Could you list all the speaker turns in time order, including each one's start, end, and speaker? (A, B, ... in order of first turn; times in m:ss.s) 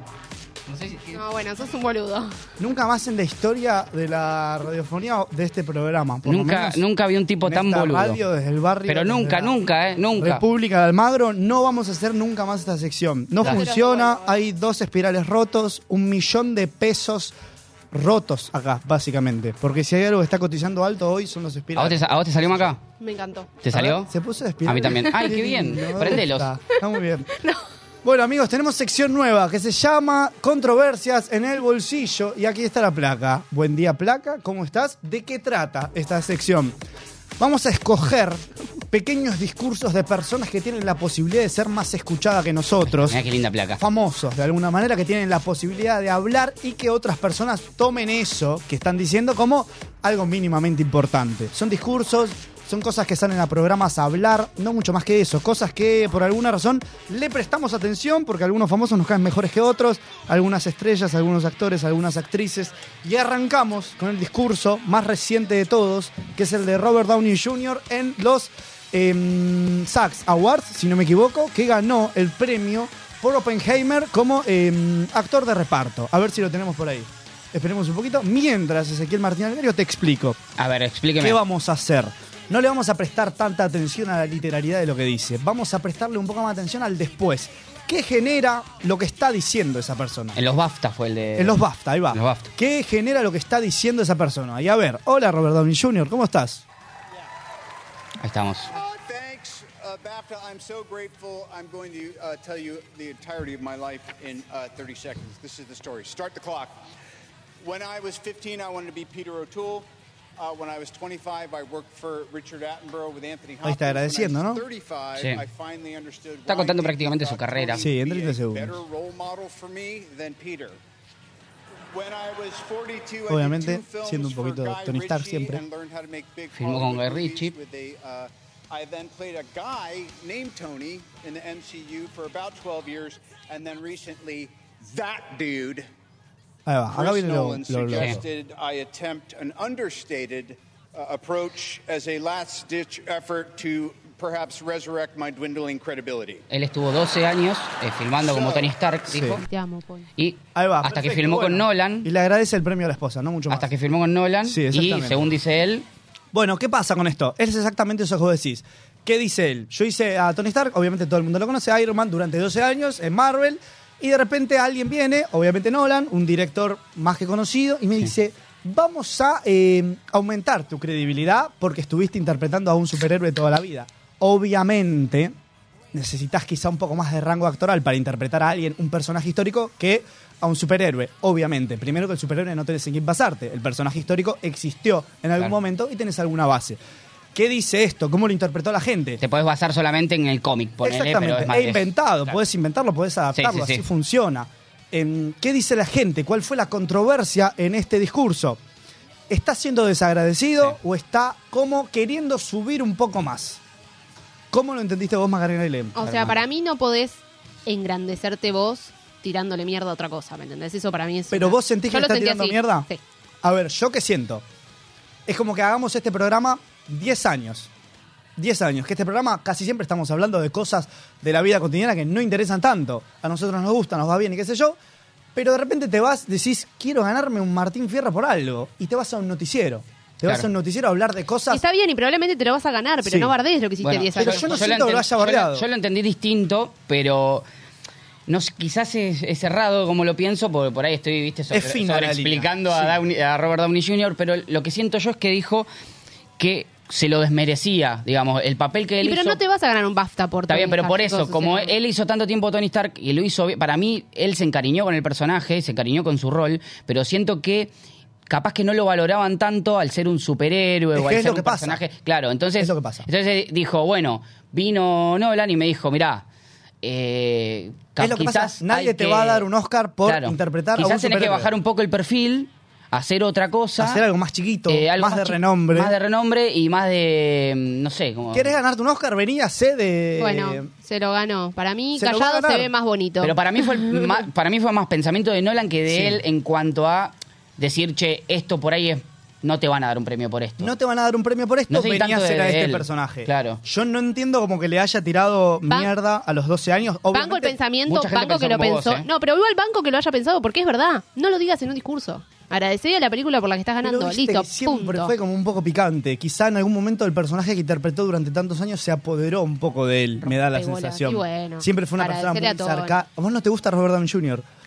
0:00.7-0:01.2 A
0:01.1-0:02.4 B
0:02.6-0:06.8 C
0:06.2-0:08.2 A
0:07.4-0:09.6 C
0:08.9-0:10.4 A
0:10.2-0:17.4 C
0:13.5-0:14.4 B
0:17.9-0:22.7 C
0:21.8-0:22.8 A
0:23.0-0:23.5 B
0:23.6-0:24.1 A
0:23.7-0:27.4 C
0:24.6-0:26.5 A
0:28.0-0:36.8 C
0:37.4-0:43.2 C
0:42.9-0:43.8 A
0:43.8-1:20.4 C
1:20.6-1:21.4 A
1:21.2-1:30.4 C
1:30.4-1:31.6 A
1:31.4-1:36.6 C
1:32.1-1:32.5 A
1:38.2-1:38.7 A
1:38.7-1:46.8 D
1:47.6-2:00.8 D
1:53.6-1:54.6 C
1:56.5-1:57.9 A
1:57.8-1:58.8 C
2:01.9-2:15.9 D
2:03.3-2:05.6 C
2:06.6-2:07.5 A
2:16.7-2:18.2 C
2:16.9-2:26.4 D
2:26.5-2:29.4 A
2:28.3-2:28.7 D
2:29.1-2:29.4 C
2:29.5-2:30.1 B
2:30.2-2:32.1 A
2:30.6-2:33.7 C
2:33.5-2:35.9 A
2:34.4-2:35.3 C
2:36.3-2:55.3 C
2:55.9-3:06.8 C
3:07.4-3:09.2 C
3:09.2-3:12.4 A
3:10.8-3:18.6 C
3:13.4-3:13.8 A
3:19.3-3:23.6 C
3:24.5-3:26.4 C
3:26.0-3:33.0 B
3:31.3-3:32.9 C
3:33.4-3:34.4 C
3:35.3-3:37.7 C
3:38.4-3:44.8 C
3:45.4-3:51.6 C
3:51.5-3:54.7 B
3:53.0-3:53.3 C
3:53.8-3:57.4 A
3:54.2-3:55.7 C
3:58.3-4:05.7 A
4:01.5-4:03.0 C
4:06.4-4:09.4 A
4:09.0-4:11.7 B
4:10.5-4:17.7 A
4:18.3-4:26.2 A
4:21.0-4:21.8 C
4:22.6-4:23.1 C
4:26.8-4:29.5 A
4:28.0-4:31.5 C
4:30.0-4:34.0 A
4:33.8-4:35.9 C
4:34.7-4:38.5 A
4:38.3-4:40.7 C
4:40.2-4:44.2 B
4:42.0-4:42.7 C
4:43.2-4:50.7 A
4:45.9-4:46.2 C
4:50.6-4:57.6 C
4:51.7-4:53.6 A
4:57.1-5:05.1 B
4:57.9-4:59.1 A
5:03.8-5:14.4 C
5:10.3-5:13.0 B